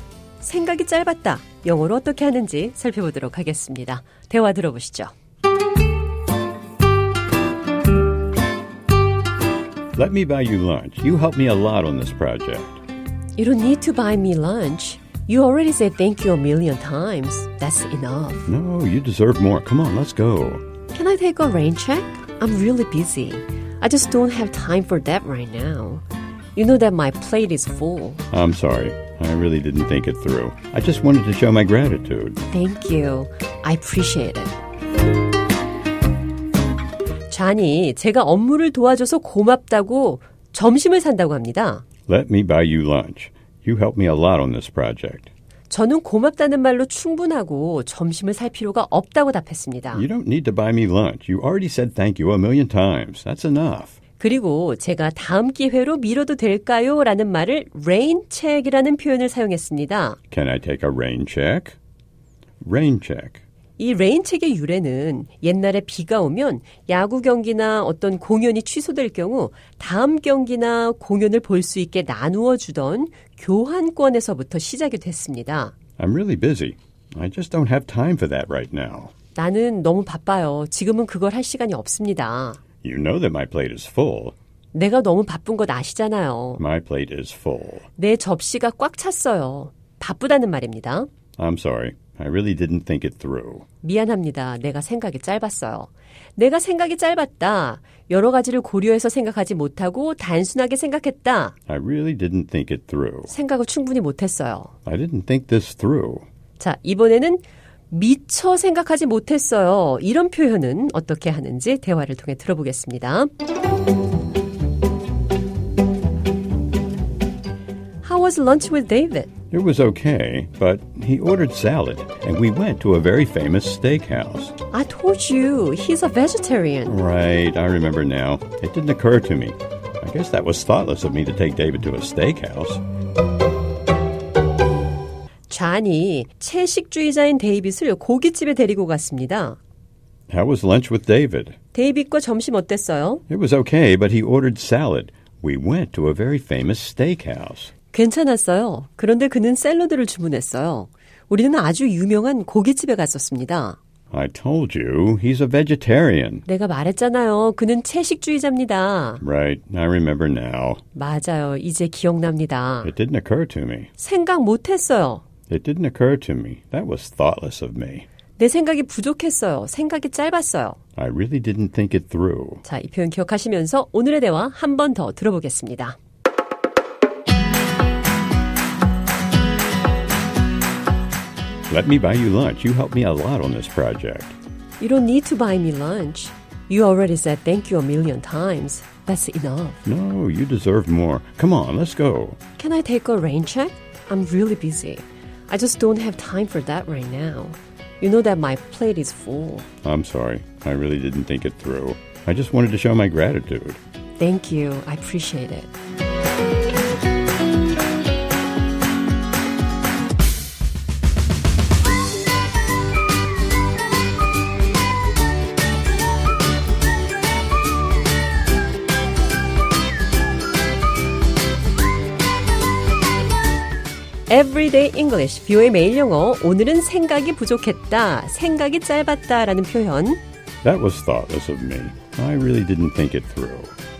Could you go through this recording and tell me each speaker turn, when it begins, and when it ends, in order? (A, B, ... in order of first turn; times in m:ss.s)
0:00.4-0:05.1 A
0:09.9-0:12.8 B
0:13.4-0:18.4 A
0:18.4-0:20.6 B
0:20.9-0:28.2 A
0:28.3-0:32.4 B
0:32.5-0:34.6 A
0:37.3-0:41.8 A
0:42.1-0:45.3 B
0:45.7-0:50.0 A
0:49.9-0:54.0 B
0:54.2-1:00.2 A
1:00.3-1:01.8 B
1:02.6-1:03.4 B
1:03.8-1:15.7 A
1:16.0-1:19.1 B
1:19.3-1:22.6 A
1:22.8-1:24.3 B
1:24.7-1:26.6 A
1:26.6-1:27.8 B
1:28.0-1:31.1 A
1:31.4-1:33.6 B
1:33.8-1:41.5 A
1:41.7-1:43.3 B
1:43.3-1:44.7 A
1:44.8-1:46.2 B
1:46.6-1:53.3 A
1:58.0-1:59.3 A
1:59.5-2:04.6 B
2:04.7-2:07.0 A
2:06.8-2:12.8 B
2:15.5-2:19.6 A
2:20.3-2:21.6 B
2:21.7-2:23.2 A
2:23.3-2:27.7 B
2:27.9-2:33.8 A
2:34.1-2:36.4 B
2:36.4-2:39.2 A
2:39.2-2:40.8 B
2:40.9-2:42.9 A
2:42.8-2:43.9 B
2:44.0-2:45.2 A
2:45.5-2:48.0 B
2:48.4-2:50.8 A
2:51.0-2:52.6 B
2:52.6-2:56.0 A
3:01.7-3:04.4 B
3:04.8-3:09.8 A
3:09.8-3:12.4 B
3:12.6-3:19.7 A
3:19.8-3:23.8 B
3:24.2-3:25.7 A
3:44.3-3:50.2 A
3:50.6-3:53.7 B